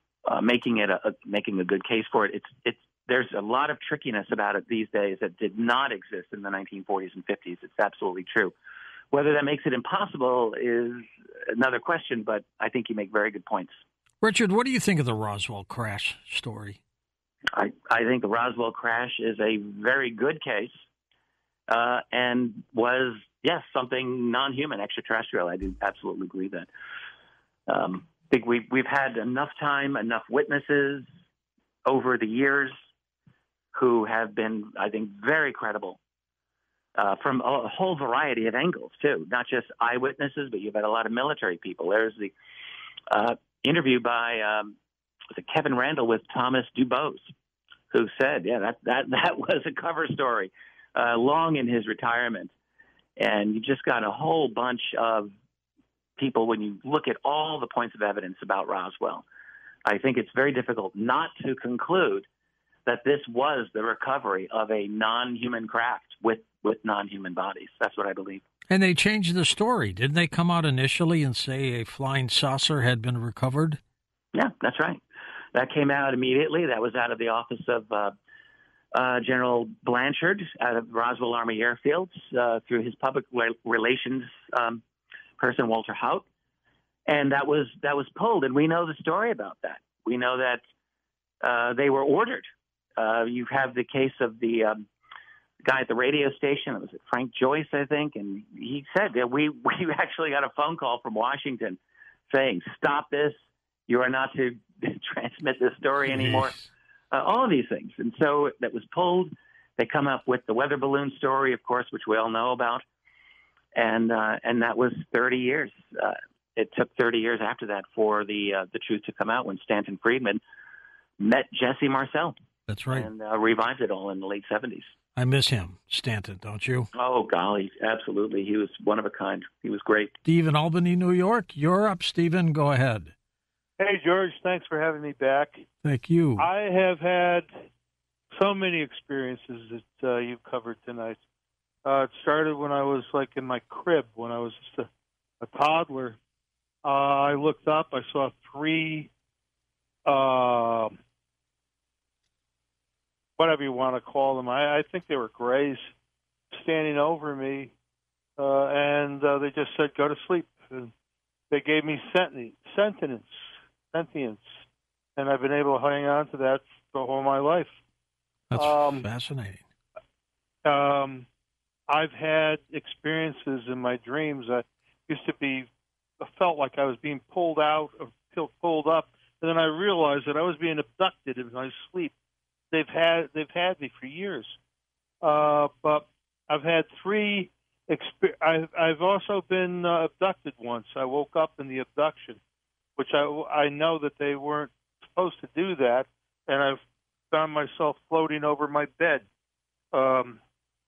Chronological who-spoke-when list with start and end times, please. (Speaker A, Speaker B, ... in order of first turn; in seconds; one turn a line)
Speaker A: 0.2-8.5
Speaker A: 9.1-13.8
Speaker B: 14.2-16.8
Speaker A: 17.5-20.8
Speaker A: 21.7-26.7
Speaker A: 27.7-31.1
Speaker A: 31.9-32.8
Speaker A: 33.7-36.0
Speaker A: 37.0-42.3
Speaker A: 43.1-44.8
Speaker A: 45.3-47.3
Speaker A: 47.9-52.5
Speaker A: 53.2-55.3
Speaker A: 56.2-59.2
Speaker A: 59.8-62.3
Speaker A: 62.9-68.4
Speaker B: 68.7-73.8
Speaker A: 74.3-75.0
Speaker A: 75.5-78.1
Speaker A: 78.9-84.8
Speaker A: 85.4-86.2
Speaker A: 87.1-90.6
Speaker A: 91.4-94.8
Speaker A: 95.6-101.8
Speaker A: 102.3-106.6
Speaker B: 106.0-106.6
Speaker A: 107.1-112.8
Speaker A: 113.7-120.4
Speaker A: 121.2-122.3
Speaker B: 122.7-123.1
Speaker A: 122.9-124.9
Speaker B: 125.1-126.9
Speaker A: 126.9-130.1
Speaker B: 130.2-133.1
Speaker C: 133.8-135.7
Speaker B: 135.8-136.5
Speaker C: 136.4-137.5
Speaker C: 138.3-141.2
Speaker C: 141.8-144.9
Speaker C: 145.4-146.2
Speaker C: 146.8-149.1
Speaker C: 150.1-151.0
Speaker C: 153.4-155.9
Speaker C: 156.5-157.7
Speaker C: 158.4-160.9
Speaker C: 161.5-164.6
Speaker C: 165.2-167.8
Speaker B: 168.5-169.6
Speaker C: 168.5-169.0
Speaker C: 170.6-171.2
Speaker C: 171.9-175.7
Speaker C: 176.2-182.1
Speaker C: 182.7-184.6
Speaker C: 185.2-192.4
Speaker C: 193.0-199.2
Speaker C: 199.9-200.4